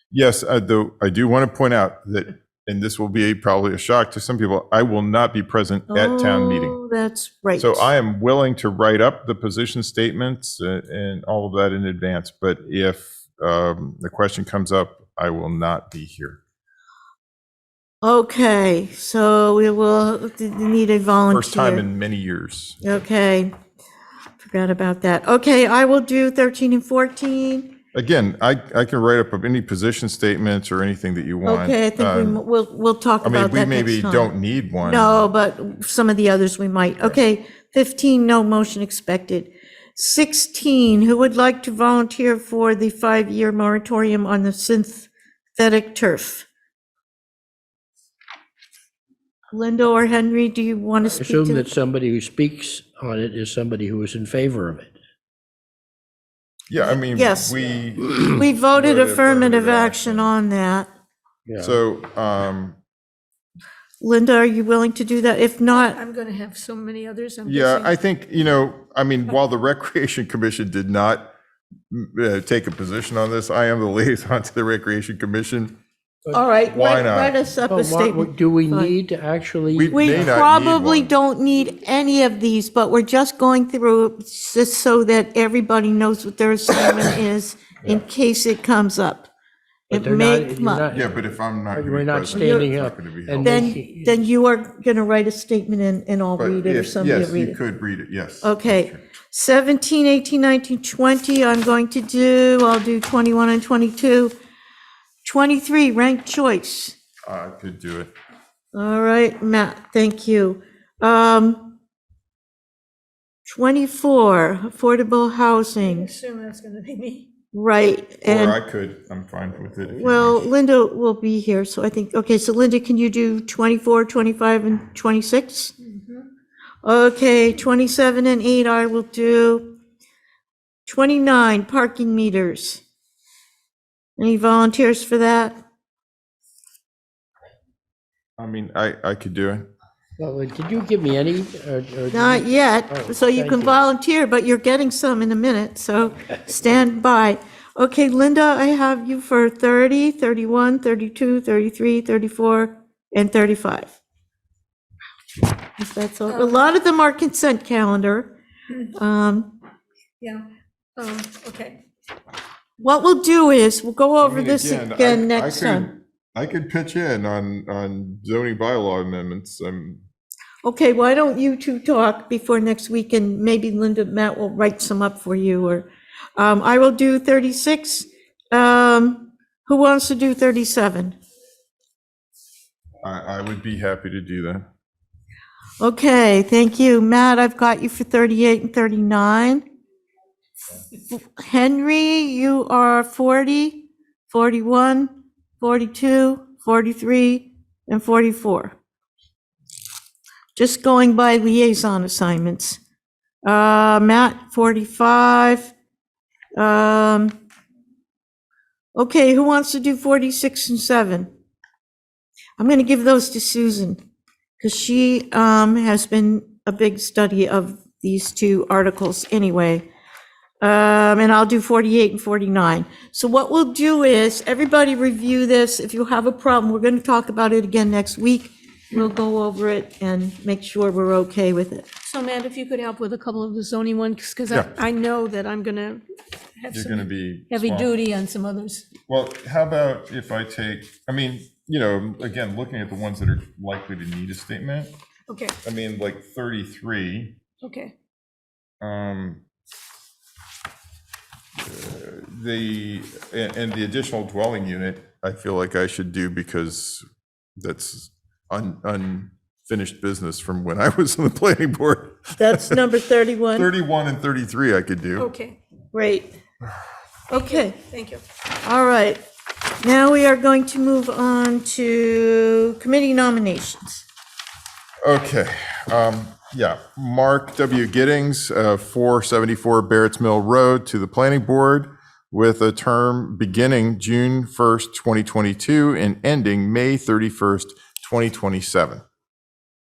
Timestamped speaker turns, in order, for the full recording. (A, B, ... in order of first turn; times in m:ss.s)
0:00.1-0:06.8 A
0:05.9-0:07.9 B
0:07.6-0:16.4 A
0:18.0-0:21.8 B
0:21.3-0:22.8 A
0:22.8-0:23.5 B
0:24.4-0:27.7 B
0:27.9-0:32.4 A
0:31.4-0:34.3 B
0:33.2-0:35.3 A
0:34.8-0:46.5 B
0:49.5-0:51.7 B
0:51.1-0:54.9 C
0:56.7-1:00.3 A
0:57.1-0:57.6 B
0:58.3-1:00.9 B
1:01.5-1:01.8 C
1:01.6-1:02.8 A
1:04.0-1:06.0 B
1:05.7-1:08.0 D
1:07.5-1:11.3 A
1:11.9-1:15.8 A
1:16.3-1:19.0 B
1:16.7-1:17.4 A
1:17.7-1:20.4 C
1:19.7-1:21.1 A
1:19.9-1:29.3 B
1:29.9-1:30.9 B
1:29.9-1:31.1 C
1:30.9-1:33.6 A
1:31.7-1:34.2 C
1:32.3-1:32.8 B
1:33.4-1:37.6 B
1:36.4-1:39.0 A
1:38.4-1:44.3 B
1:45.2-1:47.0 B
1:47.3-1:48.1 A
1:48.7-1:51.8 B
1:53.4-1:56.1 B
1:55.8-1:57.3 D
1:57.5-1:58.6 B
1:58.2-2:00.5 A
2:00.0-2:05.7 B
2:05.8-2:06.3 D
2:06.8-2:09.7 B
2:10.9-2:12.8 B
2:14.2-2:15.6 B
2:18.4-2:19.7 A
2:20.2-2:23.8 C
2:22.1-2:33.9 B
2:35.8-2:38.3 B
2:36.3-2:36.6 D
2:39.0-2:39.6 B
2:40.2-2:40.5 D
2:41.0-2:41.8 D
2:42.8-2:45.9 B
2:44.2-2:50.0 A
2:50.6-3:01.2 B
3:03.0-3:04.7 A
3:05.8-3:09.6 B
3:11.1-3:18.8 B
3:20.6-3:22.8 B
3:23.4-3:25.7 B
3:26.6-3:27.4 B
3:29.0-3:31.3 B
3:32.6-3:34.0 B
3:34.6-3:39.8 B
3:40.6-3:51.9 B
3:52.0-3:56.0 D
3:54.5-3:54.7 A
3:56.6-3:58.9 D
3:56.7-3:57.9 A
3:59.1-4:04.9 A
4:05.3-4:05.6 D
4:05.6-4:07.4 A
4:07.6-4:07.9 D
4:08.8-4:09.4 A
4:11.6-4:17.0 A
4:17.6-4:22.9 A
4:22.4-4:23.7 B
4:23.6-4:25.3 A
4:25.2-4:25.6 D
4:25.9-4:26.3 B
4:27.3-4:27.8 B
4:27.3-4:28.2 D
4:28.6-4:29.2 B
4:29.8-4:34.0 B
4:35.0-4:49.0 A